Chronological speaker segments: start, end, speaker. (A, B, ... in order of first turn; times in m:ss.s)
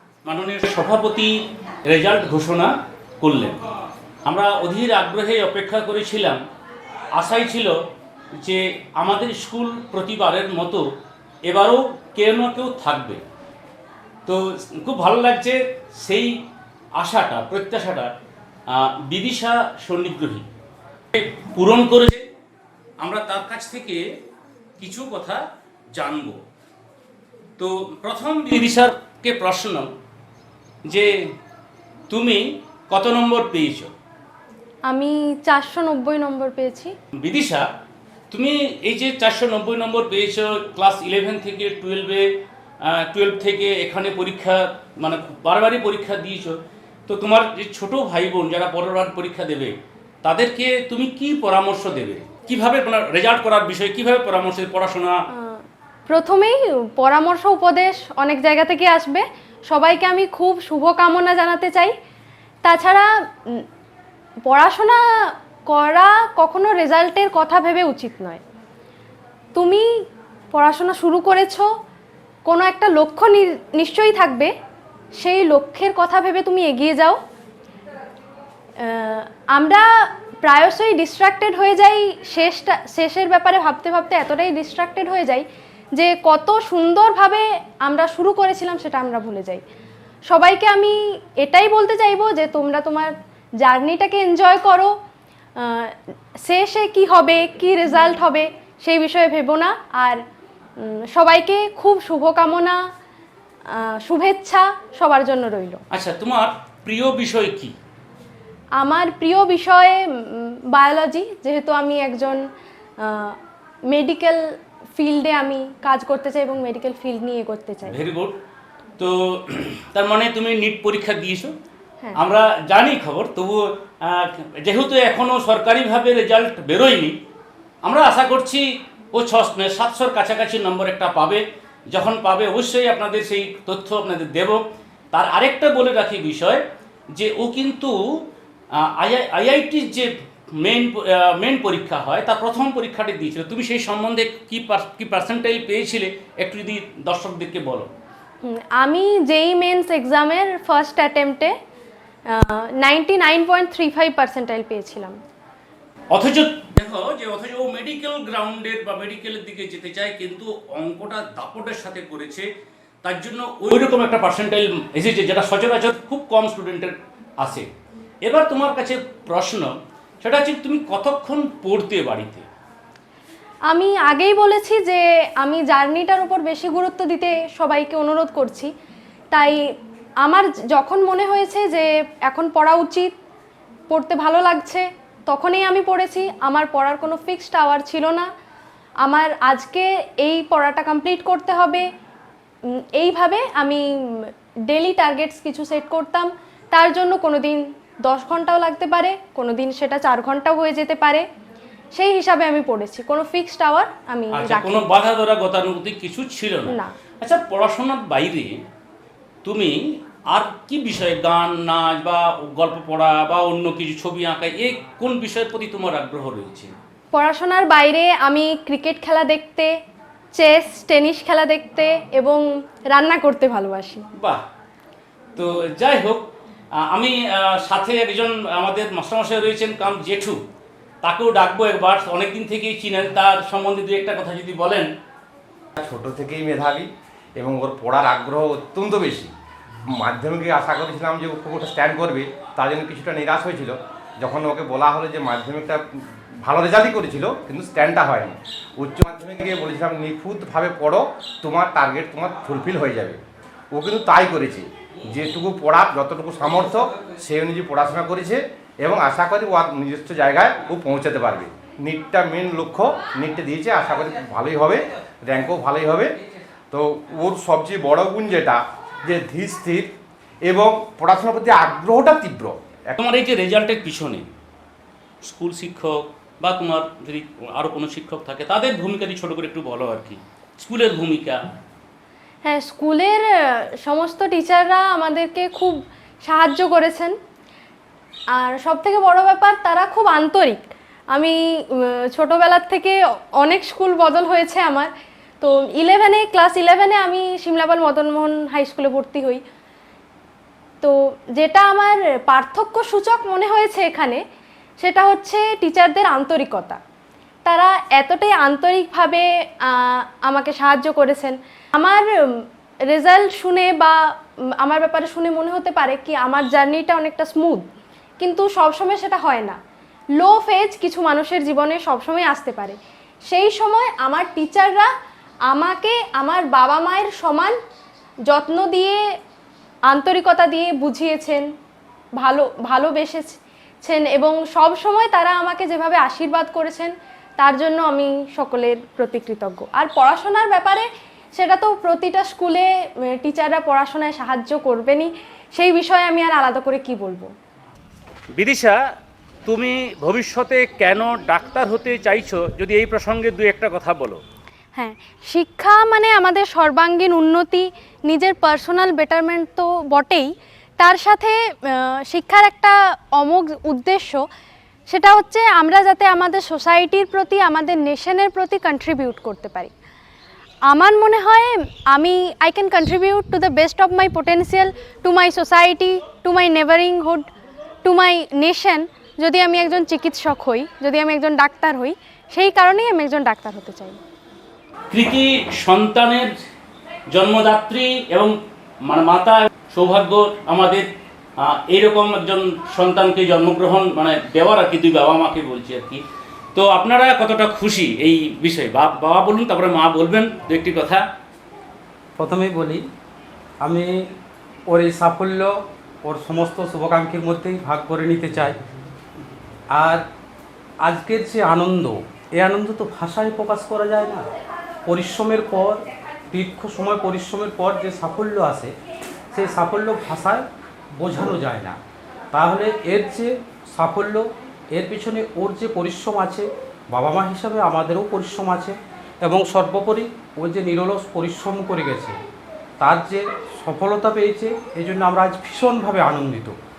0:00.2-0:01.3 A
0:01.8-0:03.6 A
0:04.2-0:06.4 A
0:07.1-0:07.7 A
0:08.4-0:10.8 A
0:11.4-0:13.2 A
0:14.2-0:16.3 A
0:17.0-0:18.1 A
0:18.7-0:20.4 A
0:21.1-0:22.2 A
0:23.0-0:24.0 A
0:24.8-0:25.4 A
0:25.9-0:26.4 A
0:27.6-0:29.9 A
0:32.1-0:33.9 A
0:34.9-0:36.9 B
0:37.2-0:37.6 A
0:38.3-0:42.3 A
0:42.8-0:49.7 A
0:50.2-0:55.2 A
0:55.3-1:01.9 B
1:02.6-1:03.6 B
1:04.4-1:05.0 B
1:05.7-1:08.4 B
1:09.5-1:09.9 B
1:10.5-1:11.7 B
1:12.4-1:14.5 B
1:15.2-1:17.2 B
1:18.8-1:19.9 B
1:20.4-1:29.6 B
1:30.3-1:33.1 B
1:33.6-1:34.9 B
1:35.6-1:40.2 B
1:40.8-1:42.8 B
1:43.7-1:45.8 B
1:45.9-1:47.7 A
1:48.8-1:52.4 B
1:53.0-1:53.4 B
1:53.9-1:54.4 B
1:55.0-1:58.0 B
1:57.9-1:58.3 A
1:59.0-2:01.5 A
2:02.2-2:07.1 A
2:07.8-2:14.6 A
2:15.1-2:16.6 A
2:17.1-2:18.0 A
2:18.8-2:27.9 A
2:28.4-2:31.5 B
2:32.3-2:35.1 B
2:36.1-2:42.5 A
2:43.0-2:47.7 A
2:48.2-2:52.4 A
2:53.7-2:58.7 B
2:59.3-2:59.6 B
3:00.2-3:03.1 B
3:03.9-3:08.3 B
3:09.0-3:11.8 B
3:13.0-3:21.2 B
3:21.9-3:24.8 B
3:24.3-3:28.6 A
3:29.4-3:29.8 A
3:30.3-3:36.7 A
3:37.1-3:39.7 B
3:40.4-3:44.0 B
3:44.2-3:44.4 A
3:45.4-3:46.3 A
3:46.9-3:50.4 A
3:51.0-3:54.9 A
3:55.8-3:59.3 C
3:59.9-4:13.2 C
4:13.7-4:26.1 C
4:26.7-4:29.9 C
4:30.4-4:32.9 C
4:33.0-4:34.3 A
4:35.2-4:41.4 A
4:42.4-4:47.1 B
4:48.3-4:50.6 B
4:51.1-4:54.9 B
4:55.4-4:59.4 B
5:00.8-5:04.2 B
5:04.8-5:06.8 B
5:07.4-5:12.1 B
5:12.9-5:14.0 B
5:14.6-5:17.6 B
5:18.2-5:19.6 B
5:20.2-5:22.8 B
5:23.3-5:24.9 B
5:25.5-5:27.5 B
5:28.3-5:29.0 B
5:29.9-5:31.4 B
5:32.2-5:47.3 B
5:48.4-5:48.8 A
5:49.5-5:54.2 A
5:54.8-6:04.2 B
6:04.9-6:09.7 B
6:10.7-6:17.3 B
6:17.8-6:24.0 B
6:24.9-6:26.3 A
6:27.1-6:28.3 A
6:28.9-6:30.9 A
6:31.4-6:36.0 A
6:36.5-6:41.0 A
6:42.2-6:42.8 D
6:43.6-6:43.9 D
6:44.7-6:48.6 D
6:49.7-6:50.0 D
6:50.8-6:54.2 D
6:54.9-6:58.7 D
6:59.3-7:00.4 D
7:01.0-7:01.8 D
7:02.3-7:12.2 D
7:12.8-7:16.5 D